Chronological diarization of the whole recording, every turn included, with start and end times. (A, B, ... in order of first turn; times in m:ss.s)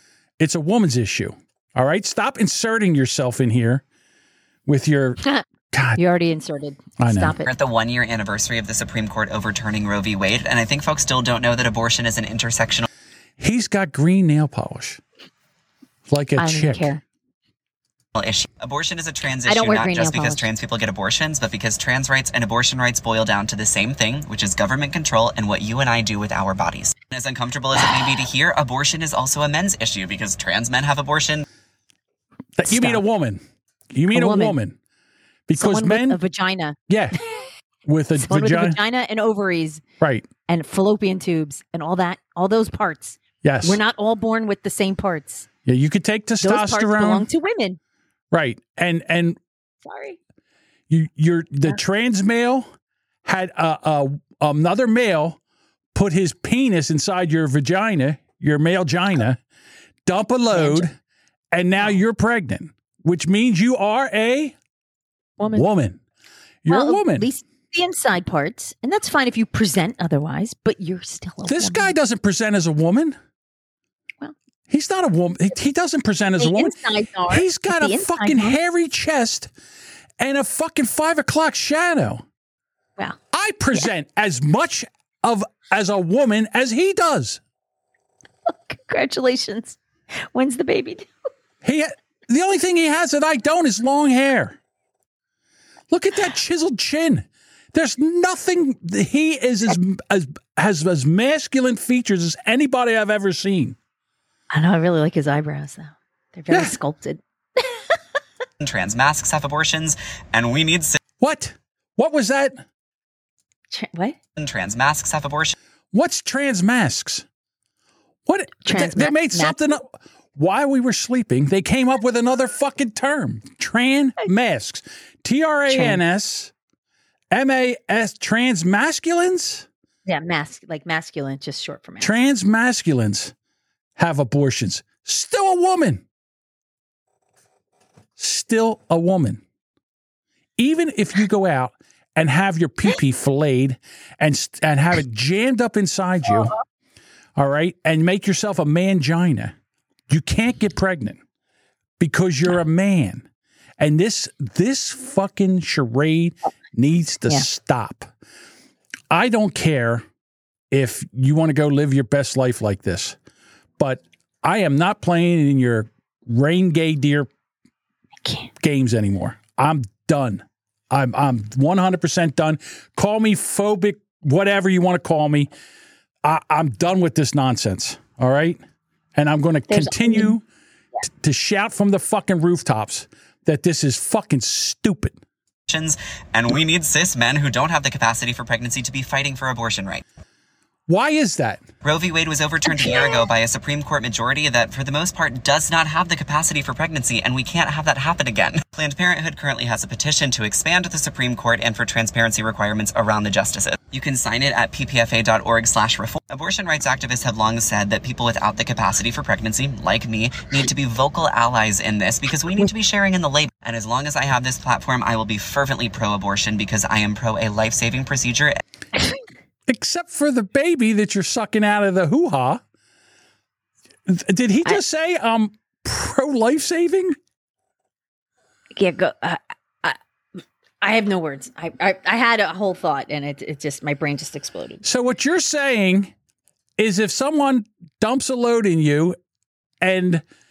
0:00.4-0:03.8 A
0:04.7-0:05.2 A
0:05.7-0:06.0 A
0:06.0-0:07.5 B
0:07.0-0:07.4 A
0:07.4-0:12.9 C
0:13.4-0:15.0 A
0:16.1-0:17.0 A
0:16.4-0:17.0 B
0:18.2-0:31.4 C
0:19.5-0:20.5 B
0:32.6-0:34.8 A
0:32.6-0:33.0 B
0:34.1-0:34.6 B
0:35.5-0:36.2 A
0:35.6-0:36.8 B
0:36.9-0:37.2 A
0:37.9-0:38.8 A
0:38.2-0:39.8 B
0:40.0-0:40.3 A
0:40.5-0:45.5 B
0:43.4-0:43.8 A
0:45.6-0:47.3 A
0:46.4-0:47.8 B
0:48.3-0:49.4 A
0:49.8-0:50.2 B
0:50.9-0:52.7 A
0:53.2-0:55.4 A
0:55.9-0:59.4 A
1:00.1-1:01.0 A
1:00.5-1:00.9 B
1:01.5-1:04.6 A
1:05.4-1:05.7 B
1:05.5-1:06.0 A
1:06.6-1:07.3 A
1:06.7-1:11.9 B
1:11.5-1:13.2 A
1:14.7-1:16.8 A
1:16.4-1:18.6 B
1:17.3-1:19.5 A
1:20.2-1:22.2 A
1:23.3-1:27.4 A
1:28.5-1:31.1 B
1:31.6-1:34.6 A
1:35.9-1:43.8 A
1:44.5-1:47.9 B
1:48.6-1:51.0 C
1:51.2-1:52.6 A
1:53.7-1:54.2 B
1:54.4-1:55.6 C
1:55.9-1:57.3 A
1:58.3-2:06.5 A
1:58.6-1:59.7 B
2:05.7-2:06.0 B
2:07.3-2:09.7 A
2:10.1-2:12.1 B
2:12.0-2:13.3 A
2:14.0-2:16.0 A
2:18.2-2:19.4 A
2:20.6-2:26.6 A
2:27.4-2:29.6 A
2:30.1-2:31.2 A
2:32.0-2:33.3 A
2:33.8-2:38.1 A
2:39.1-2:40.0 A
2:40.7-2:43.2 A
2:43.8-2:47.3 A
2:48.2-2:48.5 B
2:48.6-2:55.5 A
2:56.2-2:58.6 A
2:59.2-3:00.4 A
2:59.7-3:00.4 B
3:01.0-3:05.2 A
3:05.7-3:10.0 C
3:10.9-3:11.7 A
3:11.8-3:38.6 C
3:39.7-3:42.6 A
3:44.1-3:47.2 A
3:48.7-3:50.0 B
3:50.8-3:54.8 B
3:54.8-3:56.1 A
3:56.8-3:59.2 A
3:59.8-4:00.2 A